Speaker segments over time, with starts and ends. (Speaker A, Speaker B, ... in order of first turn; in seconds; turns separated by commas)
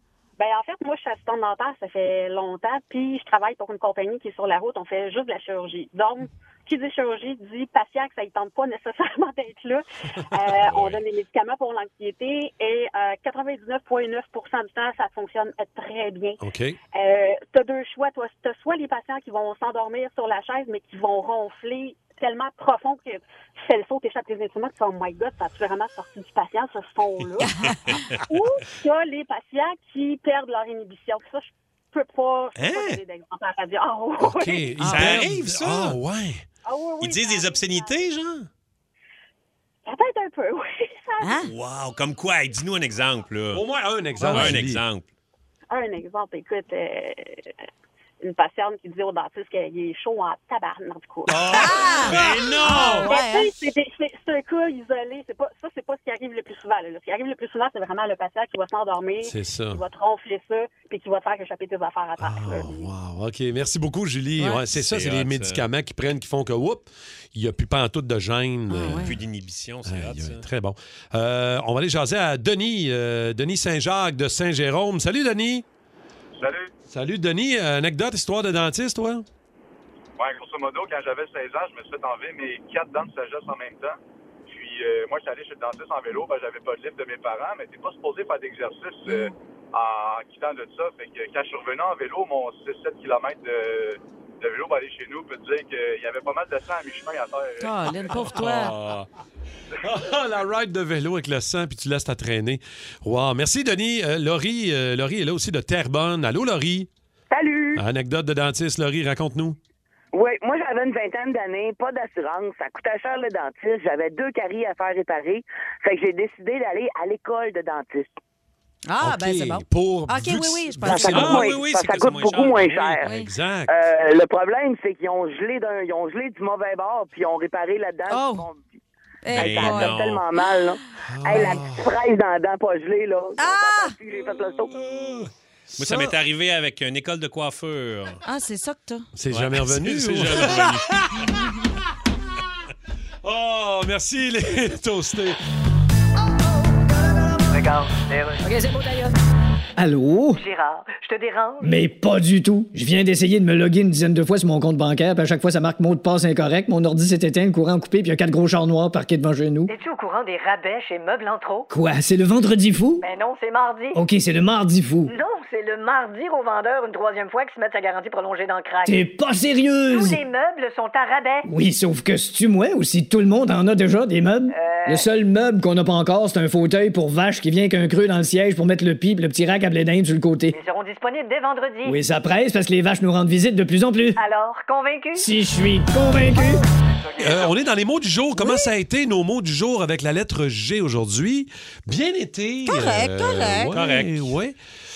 Speaker A: 0.4-34.8, Speaker B: 10.6-10.9, Speaker C: 16.4-16.8, Speaker D: 27.5-27.9, Speaker B: 32.6-33.0, Speaker C: 34.2-36.5, Speaker D: 34.8-35.3, Speaker B: 34.8-36.0, Speaker A: 36.6-38.0, Speaker B: 37.0-38.5, Speaker A: 39.9-41.3, Speaker D: 41.2-41.5, Speaker B: 41.4-43.6, Speaker C: 43.5-44.8, Speaker B: 44.2-45.1, Speaker A: 45.7-47.5, Speaker A: 48.2-52.0, Speaker C: 51.3-53.0, Speaker D: 51.5-53.5, Speaker B: 52.1-53.1, Speaker A: 52.7-62.9, Speaker C: 59.2-59.8, Speaker C: 62.2-69.2, Speaker B: 64.7-65.7, Speaker D: 68.7-69.1, Speaker B: 69.0-70.5, Speaker C: 69.8-75.7, Speaker E: 76.4-76.7, Speaker C: 76.9-79.2, Speaker E: 80.2-97.7, Speaker D: 89.1-89.3, Speaker D: 97.6-98.8, Speaker C: 98.2-99.1, Speaker C: 99.8-106.9, Speaker F: 107.3-107.8, Speaker C: 107.8-109.6, Speaker F: 110.1-118.1, Speaker D: 118.9-121.6, Speaker C: 119.0-122.3, Speaker F: 120.8-123.0, Speaker B: 121.1-123.0, Speaker D: 123.0-123.3, Speaker C: 123.0-123.7, Speaker F: 123.7-128.8, Speaker D: 128.1-128.5, Speaker D: 129.2-130.0, Speaker B: 129.3-130.3, Speaker F: 129.3-134.7, Speaker C: 131.1-131.9, Speaker D: 131.3-131.6, Speaker D: 133.4-134.0, Speaker B: 134.8-138.2, Speaker C: 135.7-136.2, Speaker D: 138.2-139.1, Speaker C: 139.2-141.3, Speaker B: 139.3-141.0, Speaker C: 143.2-145.4, Speaker G: 147.5-149.1, Speaker H: 149.8-150.4, Speaker G: 150.3-151.9, Speaker H: 151.6-159.7, Speaker G: 159.7-161.7, Speaker H: 161.7-163.1, Speaker G: 163.0-164.0, Speaker H: 163.9-165.1, Speaker G: 165.1-169.1, Speaker H: 168.8-170.2, Speaker G: 169.9-171.5, Speaker H: 171.4-180.6, Speaker G: 174.5-175.1, Speaker G: 180.5-182.0, Speaker H: 181.8-184.2, Speaker G: 184.2-185.3, Speaker H: 185.2-186.6, Speaker C: 187.2-194.6, Speaker D: 188.4-188.7, Speaker D: 192.7-193.8, Speaker B: 193.7-194.3